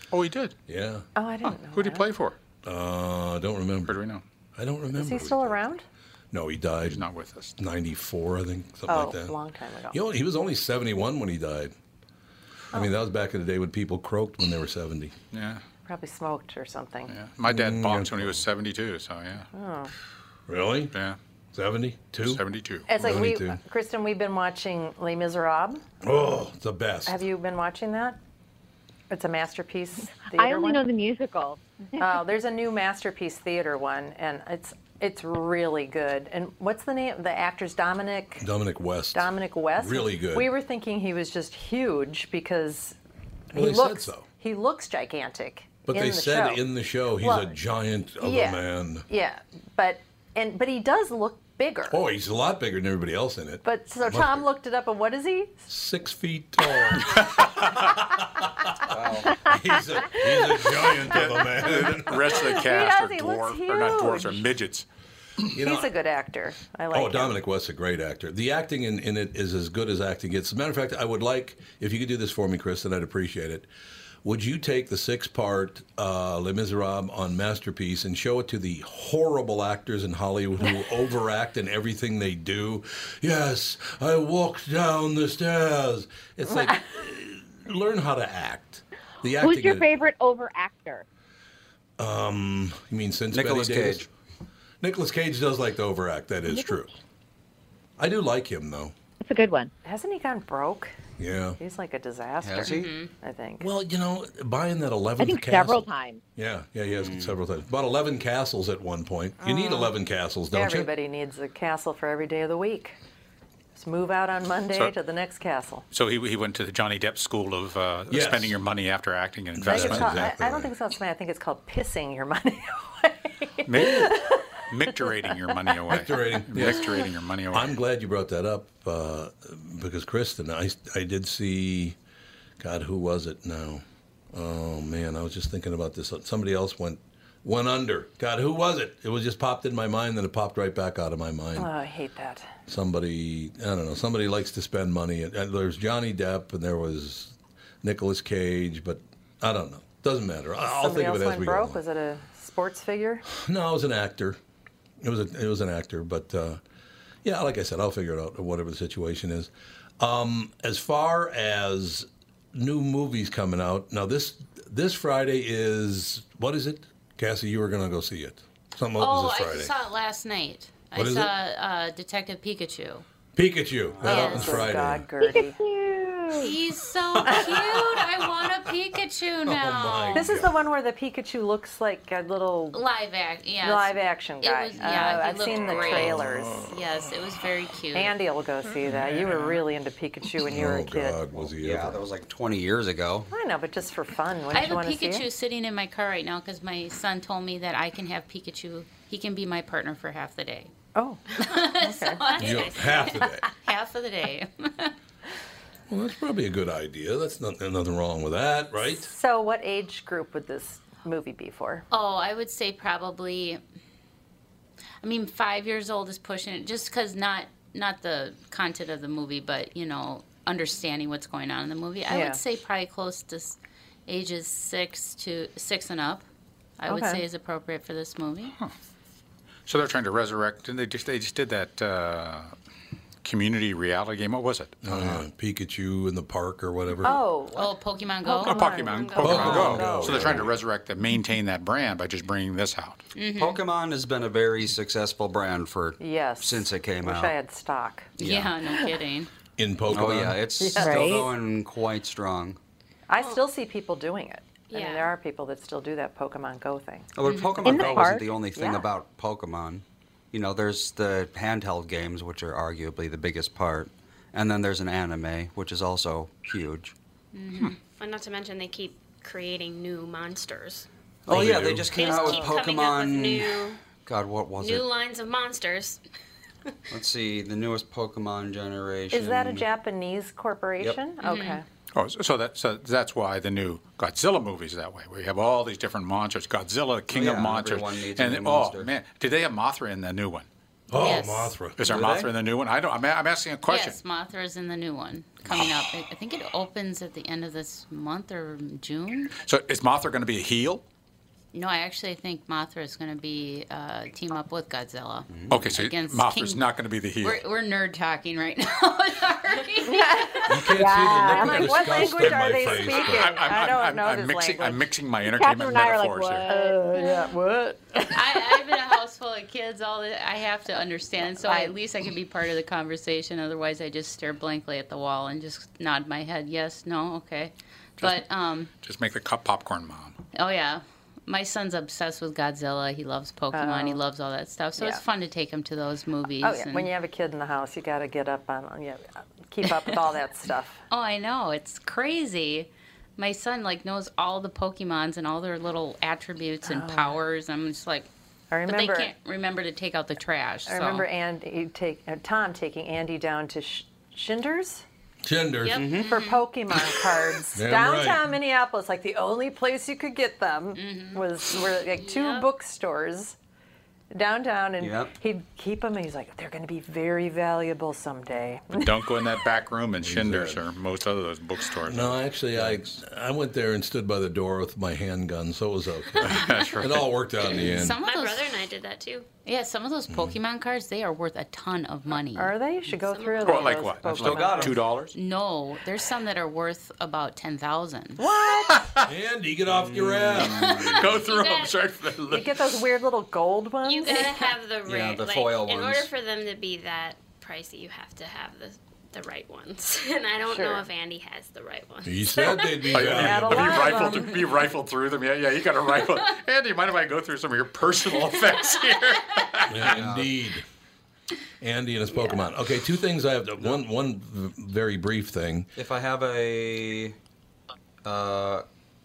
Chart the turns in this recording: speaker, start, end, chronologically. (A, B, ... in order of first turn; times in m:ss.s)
0:00.1-0:00.6 A
0:00.7-0:01.1 B
0:01.2-0:02.1 C
0:01.7-0:02.4 A
0:02.6-0:04.0 B
0:03.9-0:04.2 A
0:04.6-0:05.6 B
0:04.9-0:05.8 C
0:06.3-0:07.0 B
0:06.8-0:07.5 A
0:07.6-0:09.3 B
0:08.9-0:10.0 C
0:09.9-0:11.7 B
0:12.7-0:15.1 B
0:15.3-0:15.6 A
0:15.9-0:17.1 C
0:17.1-0:19.5 A
0:17.4-0:18.4 B
0:19.5-0:19.9 C
0:20.5-0:21.0 B
0:20.9-0:21.2 A
0:21.5-0:22.4 B
0:22.2-0:22.9 A
0:22.9-0:25.8 C
0:22.9-0:23.6 B
0:26.0-0:27.2 B
0:27.0-0:28.2 C
0:29.1-0:30.8 C
0:30.3-0:31.6 D
0:32.0-0:38.4 C
0:38.4-0:40.5 B
0:39.1-0:43.0 C
0:43.5-0:44.2 B
0:43.5-0:46.6 C
0:45.8-0:49.0 B
0:47.2-0:47.6 C
0:48.2-0:52.0 C
0:51.9-0:54.4 B
0:53.6-0:55.7 C
0:55.7-1:02.5 B
0:58.9-0:59.4 E
0:59.3-0:59.7 D
1:01.1-1:04.8 A
1:02.3-1:04.4 C
1:05.5-1:05.9 B
1:05.6-1:07.4 C
1:06.9-1:13.7 B
1:14.2-1:29.9 B
1:29.4-1:31.0 D
1:32.0-1:34.1 B
1:33.3-1:34.0 E
1:34.8-1:36.9 B
1:36.5-1:36.8 D
1:38.0-1:38.9 B
1:39.2-1:39.7 D
1:39.8-1:40.9 C
1:41.2-1:41.6 B
1:41.6-1:43.7 C
1:42.4-1:43.0 E
1:42.6-1:43.1 F
1:43.6-1:50.9 B
1:45.2-1:46.2 D
1:47.0-1:47.4 E
1:49.4-1:49.9 C
1:50.5-1:53.0 C
1:53.7-1:55.8 C
1:55.9-2:00.2 A
1:58.1-1:58.6 B
1:59.6-2:00.7 B
1:59.6-2:04.6 C
2:03.7-2:07.8 A
2:05.9-2:12.0 B
2:12.6-2:21.7 B
2:21.6-2:22.5 C
2:22.7-2:31.8 B
2:30.7-2:33.2 C
2:33.3-2:34.4 B
2:35.0-2:36.6 B
2:37.2-2:49.7 B
2:49.0-2:53.0 F
2:50.9-2:51.3 B
2:53.3-2:55.1 B
2:54.0-2:55.6 C
2:54.0-2:54.7 F
2:55.2-2:56.5 D
2:56.3-3:00.3 F
2:57.3-2:58.4 B
2:59.4-3:00.6 B
3:00.1-3:02.8 C
3:02.7-3:08.1 F
3:03.6-3:06.6 C
3:05.9-3:06.8 B
3:07.9-3:11.2 C
3:08.9-3:09.6 A
3:10.4-3:12.0 B
3:11.6-3:13.3 E
3:13.3-3:15.2 C
3:14.5-3:20.7 F
3:20.9-3:22.2 C
3:21.3-3:24.9 F
3:22.3-3:23.2 G
3:22.4-3:23.4 B
3:25.9-3:29.1 B
3:28.9-3:31.8 C
3:31.9-3:33.6 F
3:35.0-3:46.2 F
3:42.1-3:42.4 C
3:46.8-3:48.5 F
3:46.9-3:47.2 C
3:49.7-3:52.5 A
3:53.2-3:55.2 A
3:54.8-3:57.2 B
3:57.0-4:00.5 C
3:57.5-3:58.7 F
3:58.4-4:03.0 A
3:58.8-3:59.7 G
3:59.2-4:00.5 B
3:59.5-3:59.9 E
4:03.1-4:03.6 F
4:03.4-4:07.4 E
4:06.0-4:08.1 C
4:08.2-4:09.3 F
4:08.2-4:08.5 E
4:09.6-4:10.5 B
4:09.9-4:12.6 E
4:10.6-4:11.1 C
4:10.8-4:11.3 D
4:13.1-4:17.1 C
4:14.7-4:15.1 G
4:17.1-4:26.9 E
4:17.2-4:17.7 F
4:17.6-4:18.3 D
4:18.6-4:18.8 C
4:27.3-4:27.8 F
4:27.9-4:30.9 G
4:31.3-4:34.8 E
4:31.3-4:32.0 B
4:31.9-4:33.8 G
4:32.0-4:32.5 C
4:34.6-4:36.0 G
4:36.9-4:39.7 E
4:39.1-4:41.6 C
4:41.2-4:41.6 F
4:41.9-4:50.5 A
4:47.1-4:48.9 E
4:50.9-4:52.0 B
4:50.9-4:51.5 F
4:51.8-4:54.0 A
4:51.8-4:52.3 E
4:53.7-4:59.4 F
4:59.4-5:00.8 A
5:01.5-5:06.6 F
5:05.3-5:05.7 E
5:05.5-5:07.4 A
5:07.2-5:10.7 F
5:09.8-5:14.8 C
5:10.5-5:13.3 B
5:10.7-5:11.8 D
5:12.9-5:16.4 A
5:15.2-5:16.9 D
5:16.5-5:18.7 C
5:18.1-5:28.7 F
5:21.4-5:21.7 C
5:28.8-5:30.2 A
5:30.3-5:36.9 F
5:33.5-5:34.0 C
5:34.8-5:35.0 C
5:36.4-5:40.8 C
5:40.9-5:48.1 F
5:46.6-5:47.2 C
5:48.5-5:49.1 C
5:48.7-5:51.1 F
5:50.6-5:54.8 C
5:55.2-5:55.8 B
5:55.7-5:56.4 F
5:55.7-5:56.1 E
5:56.0-6:03.4 C
5:57.5-5:58.3 B
6:00.8-6:01.2 F
6:02.0-6:02.4 G
6:04.1-6:08.9 C
6:04.8-6:05.1 E
6:08.7-6:12.2 A
6:10.0-6:10.6 B
6:11.8-6:18.0 B
6:16.2-6:17.1 A
6:17.7-6:18.5 F
6:18.0-6:19.3 G
6:19.4-6:22.5 F
6:20.1-6:20.4 B
6:22.4-6:24.8 C
6:23.0-6:23.9 G
6:23.4-6:25.1 A
6:24.1-6:24.8 E
6:25.1-6:28.2 F
6:28.2-6:28.9 C
6:28.7-6:29.1 A
6:29.0-6:30.8 B
6:29.7-6:31.0 E
6:30.5-6:31.0 F
6:30.9-6:31.8 G
6:30.9-6:32.5 A
6:32.3-6:34.5 C
6:33.8-6:43.0 G
6:34.8-6:36.1 E
6:40.4-6:40.8 C
6:42.0-6:43.8 B
6:42.9-6:49.9 A
6:42.9-6:44.4 C
6:49.7-6:50.6 B
6:49.8-6:50.3 E
6:51.6-6:55.7 B
6:55.8-6:57.2 E
6:58.0-6:58.6 E